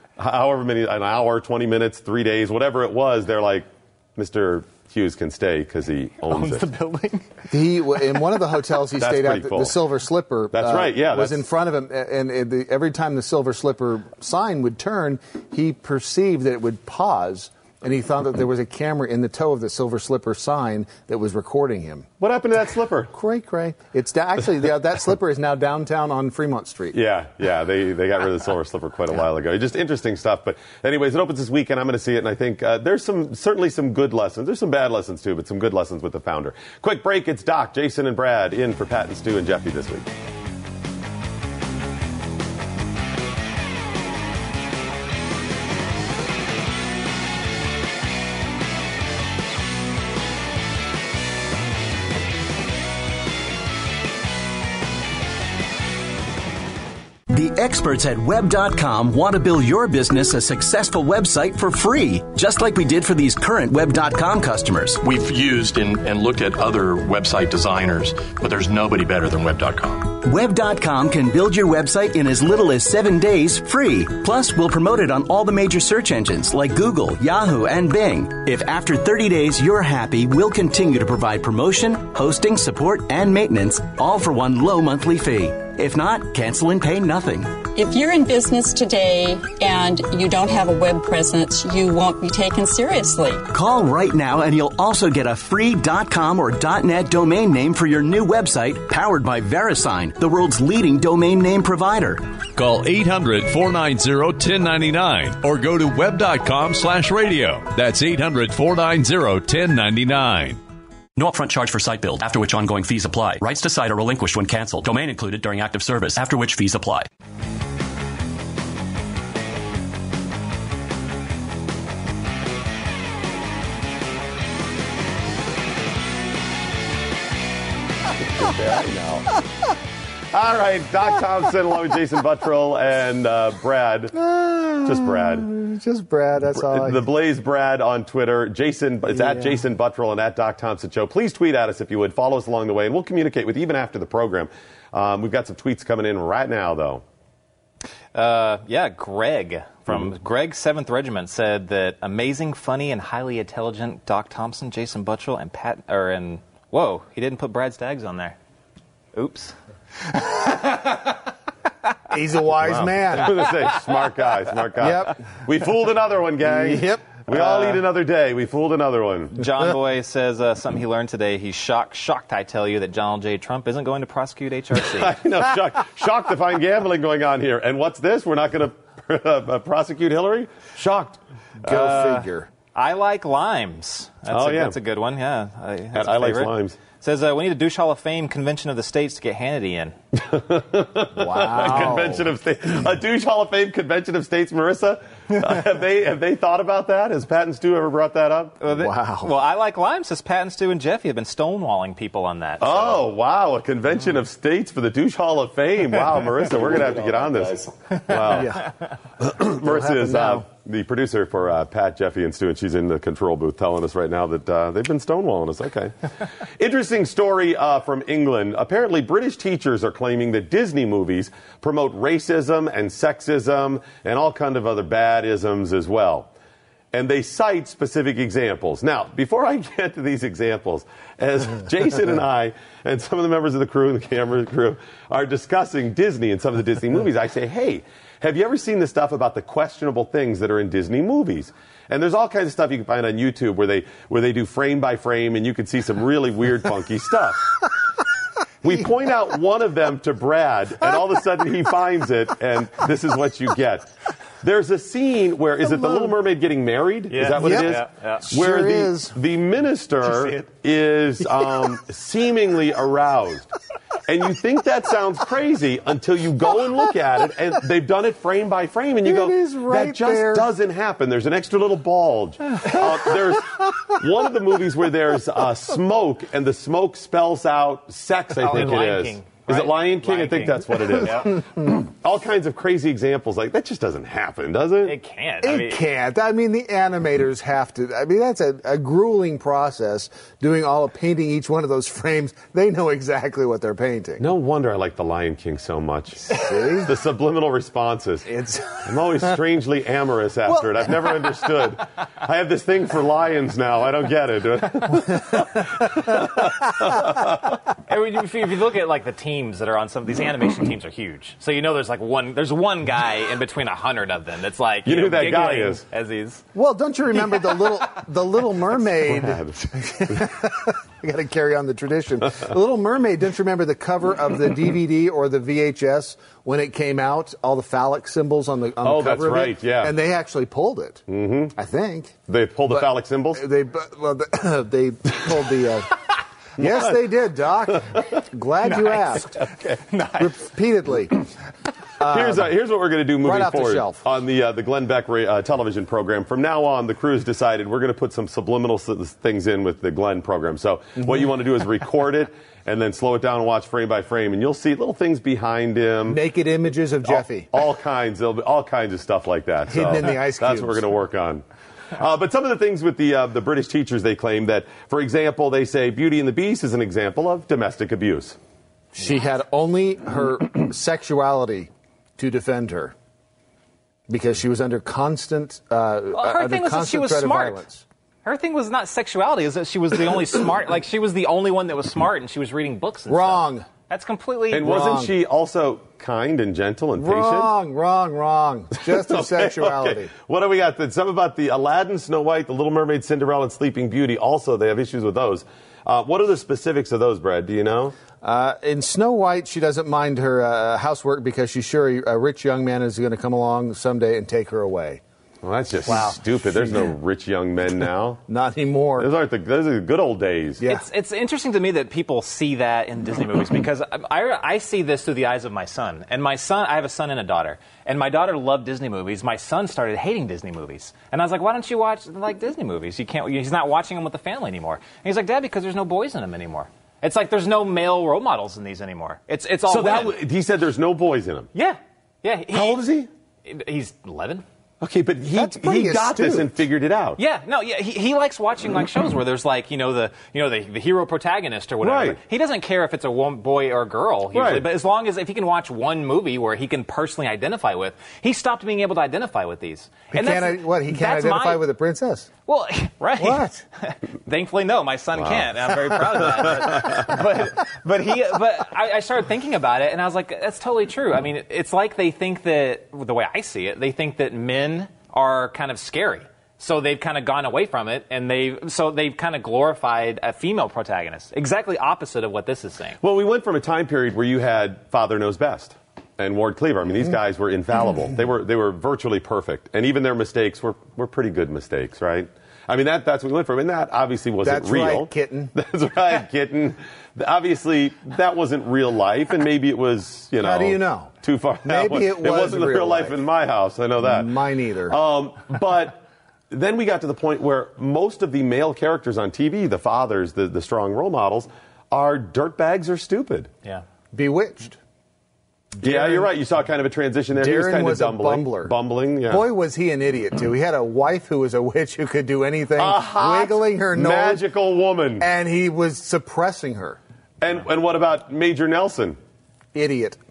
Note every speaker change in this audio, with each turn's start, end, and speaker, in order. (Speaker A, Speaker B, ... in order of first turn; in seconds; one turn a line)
Speaker A: 0.2-6.7
Speaker B: 6.3-7.3
Speaker C: 7.5-22.1
Speaker A: 9.0-9.8
Speaker A: 10.5-11.4
Speaker A: 22.2-23.1
Speaker C: 23.1-27.0
Speaker A: 26.9-40.1
Speaker D: 57.3-65.0
Speaker E: 65.0-70.1
Speaker D: 70.2-87.6
Speaker F: 87.7-93.5
Speaker D: 93.5-102.2
Speaker G: 102.6-110.6
Speaker H: 111.2-117.1
Speaker A: 128.3-129.3
Speaker A: 130.3-134.2
Speaker C: 134.1-137.1
Speaker A: 134.8-135.5
Speaker A: 136.4-147.0
Speaker C: 139.1-139.6
Speaker B: 148.2-158.4
Speaker B: 159.2-159.6
Speaker C: 162.1-163.4
Speaker A: 162.6-169.4
Speaker B: 163.4-163.8
Speaker C: 164.8-165.2
Speaker C: 166.4-167.0
Speaker B: 167.3-167.8
Speaker B: 169.4-175.1
Speaker A: 174.8-181.2
Speaker C: 181.6-182.5
Speaker B: 181.7-190.0
Speaker A: 184.3-184.8
Speaker A: 185.9-186.8
Speaker A: 190.2-198.6
Speaker C: 191.2-192.3
Speaker B: 198.6-203.0
Speaker C: 198.7-199.3
Speaker A: 202.6-208.6
Speaker C: 208.3-208.7
Speaker A: 209.2-216.0
Speaker C: 209.4-210.4
Speaker A: 216.6-226.3
Speaker A: 226.9-247.4
Speaker A: 248.6-253.9
Speaker A: 254.4-263.5
Speaker C: 255.7-256.1
Speaker B: 257.1-258.3
Speaker C: 257.3-259.2
Speaker B: 260.0-260.4
Speaker A: 264.1-285.0
Speaker C: 269.0-270.5
Speaker B: 278.3-281.3
Speaker B: 284.9-285.8
Speaker C: 285.4-294.2
Speaker A: 294.2-298.3
Speaker C: 296.3-296.9
Speaker C: 298.3-299.0
Speaker A: 298.8-307.6
Speaker C: 300.5-301.2
Speaker B: 307.9-316.4
Speaker A: 314.9-315.8
Speaker C: 316.6-331.0
Speaker A: 319.0-320.2
Speaker A: 328.8-329.9
Speaker A: 331.1-331.6
Speaker C: 331.6-332.2
Speaker A: 332.3-333.5
Speaker C: 332.7-335.9
Speaker C: 336.6-339.3
Speaker A: 336.6-337.9
Speaker B: 338.6-340.3
Speaker A: 339.4-339.8
Speaker C: 340.2-341.2
Speaker C: 342.0-342.5
Speaker A: 342.0-356.2
Speaker C: 343.2-344.0
Speaker C: 356.1-357.5
Speaker A: 357.1-361.4
Speaker C: 359.7-360.8
Speaker A: 361.9-368.4
Speaker C: 368.9-372.9
Speaker C: 374.1-377.9
Speaker B: 376.1-377.6
Speaker B: 378.2-384.7
Speaker C: 383.1-383.7
Speaker A: 384.5-387.5
Speaker C: 384.6-385.1
Speaker C: 387.0-390.1
Speaker A: 388.8-398.0
Speaker C: 398.2-405.0
Speaker A: 405.4-408.2
Speaker B: 405.9-406.2
Speaker C: 408.3-409.1
Speaker A: 409.0-410.6
Speaker B: 410.6-430.1
Speaker A: 429.7-431.5
Speaker B: 431.5-432.8
Speaker A: 432.5-433.1
Speaker B: 433.4-434.4
Speaker A: 434.8-437.2
Speaker C: 435.3-436.5
Speaker B: 437.2-451.6
Speaker A: 441.8-442.2
Speaker A: 444.3-444.7
Speaker C: 450.1-452.3
Speaker B: 452.5-473.0
Speaker C: 453.2-453.6
Speaker A: 455.2-457.1
Speaker A: 473.0-503.5
Speaker C: 484.4-485.5
Speaker C: 490.4-491.1
Speaker C: 491.6-493.2
Speaker C: 494.0-495.0
Speaker C: 504.1-504.8
Speaker C: 505.8-506.3
Speaker A: 505.8-509.5
Speaker C: 507.4-514.4
Speaker A: 512.8-515.3
Speaker C: 515.2-517.0
Speaker A: 517.4-519.2
Speaker C: 519.7-520.2